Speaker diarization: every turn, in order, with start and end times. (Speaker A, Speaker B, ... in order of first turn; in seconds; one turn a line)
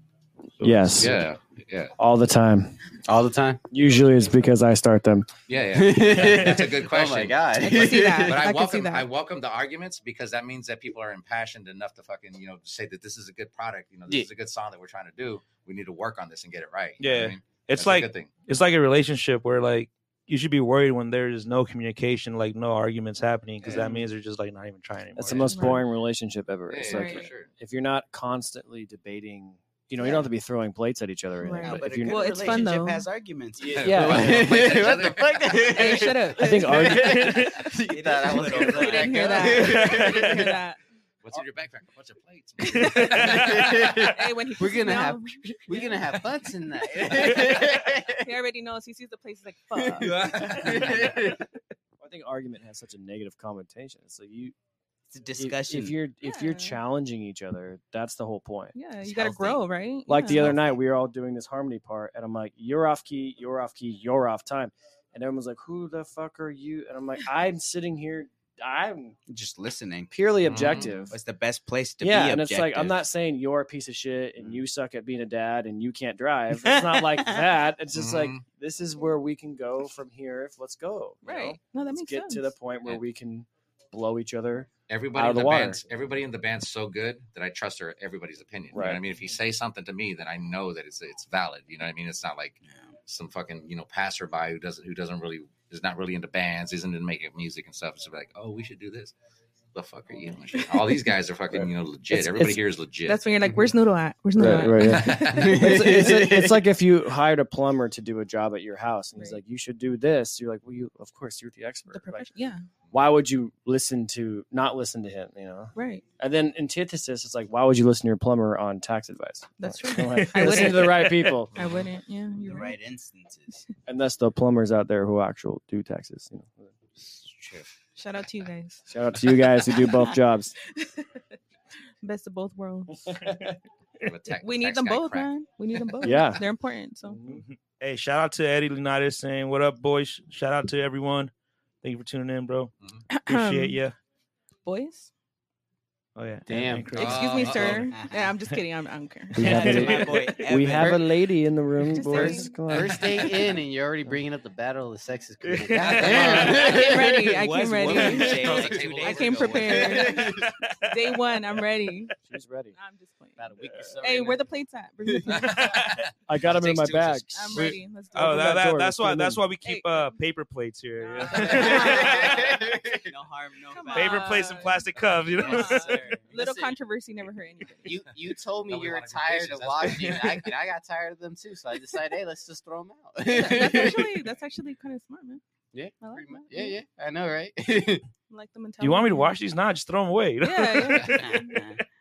Speaker A: 0.6-1.1
Speaker B: 0.6-1.2
Speaker C: 1.0-1.9
Speaker B: 2.0-2.8
Speaker D: 3.0-3.6
Speaker B: 3.7-5.3
Speaker C: 5.5-18.3
Speaker D: 5.7-8.4
Speaker A: 6.2-6.6
Speaker E: 7.5-9.1
Speaker A: 17.0-25.6
Speaker B: 25.1-32.4
Speaker E: 25.4-25.8
Speaker C: 26.7-27.5
Speaker E: 26.9-27.3
Speaker E: 31.4-33.0
Speaker F: 31.6-33.9
Speaker D: 33.6-40.6
Speaker C: 33.7-36.0
Speaker B: 33.7-34.9
Speaker E: 35.6-37.2
Speaker B: 36.3-37.4
Speaker A: 36.8-37.6
Speaker F: 37.9-39.8
Speaker E: 38.7-40.8
Speaker A: 39.7-40.5
Speaker C: 41.2-44.0
Speaker E: 42.6-43.5
Speaker A: 42.8-43.5
Speaker D: 43.1-48.2
Speaker E: 44.1-46.1
Speaker E: 48.2-51.1
Speaker D: 49.8-51.4
Speaker C: 50.0-50.9
Speaker B: 52.0-54.5
Speaker F: 55.1-56.0
Speaker B: 55.4-58.7
Speaker E: 56.2-56.8
Speaker E: 58.7-60.5
Speaker F: 59.1-59.6
Speaker B: 60.1-69.1
Speaker F: 69.3-73.0
Speaker B: 70.1-71.2
Speaker C: 70.4-70.9
Speaker B: 72.0-85.8
Speaker F: 76.6-77.4
Speaker C: 77.9-78.4
Speaker E: 81.2-82.5
Speaker C: 84.9-99.1
Speaker B: 88.7-89.0
Speaker C: 99.7-103.3
Speaker B: 101.5-102.6
Speaker E: 103.0-105.2
Speaker B: 104.3-112.3
Speaker C: 104.4-105.6
Speaker D: 105.3-106.6
Speaker E: 111.9-112.6
Speaker B: 112.9-121.5
Speaker E: 115.7-116.0
Speaker E: 119.6-122.8
Speaker A: 120.1-121.0
Speaker C: 121.5-121.8
Speaker F: 122.4-123.6
Speaker B: 123.9-126.7
Speaker C: 127.0-127.7
Speaker E: 128.0-128.8
Speaker B: 128.9-130.5
Speaker E: 129.8-130.1
Speaker E: 132.0-133.1
Speaker C: 134.0-135.3
Speaker E: 134.3-137.2
Speaker B: 136.0-136.4
Speaker A: 137.3-142.7
Speaker E: 143.1-143.8
Speaker A: 143.3-143.9
Speaker E: 144.6-145.1
Speaker A: 146.2-147.7
Speaker D: 146.5-147.0
Speaker C: 146.9-147.9
Speaker E: 147.0-150.1
Speaker F: 147.9-148.2
Speaker B: 149.3-153.4
Speaker A: 149.4-150.3
Speaker F: 149.4-151.0
Speaker D: 150.7-151.1
Speaker E: 151.8-152.7
Speaker D: 152.1-157.4
Speaker A: 155.4-156.6
Speaker C: 155.8-156.7
Speaker E: 156.4-162.1
Speaker F: 156.8-159.8
Speaker D: 157.9-158.6
Speaker C: 158.2-160.2
Speaker D: 159.7-160.5
Speaker B: 162.2-162.7
Speaker E: 162.7-165.9
Speaker D: 163.4-164.5
Speaker A: 165.4-166.0
Speaker B: 166.3-169.4
Speaker C: 166.5-167.6
Speaker E: 167.3-168.8
Speaker A: 167.5-172.3
Speaker E: 169.6-170.2
Speaker E: 171.0-172.6
Speaker D: 171.4-173.1
Speaker F: 171.7-174.6
Speaker E: 173.7-174.8
Speaker A: 173.9-175.9
Speaker E: 175.4-178.0
Speaker F: 175.5-176.2
Speaker D: 175.7-176.8
Speaker D: 177.8-184.1
Speaker C: 178.7-180.5
Speaker E: 183.3-185.4
Speaker D: 185.7-188.0
Speaker E: 186.0-186.8
Speaker E: 188.3-189.4
Speaker A: 188.8-191.2
Speaker E: 190.4-191.6
Speaker F: 191.2-191.8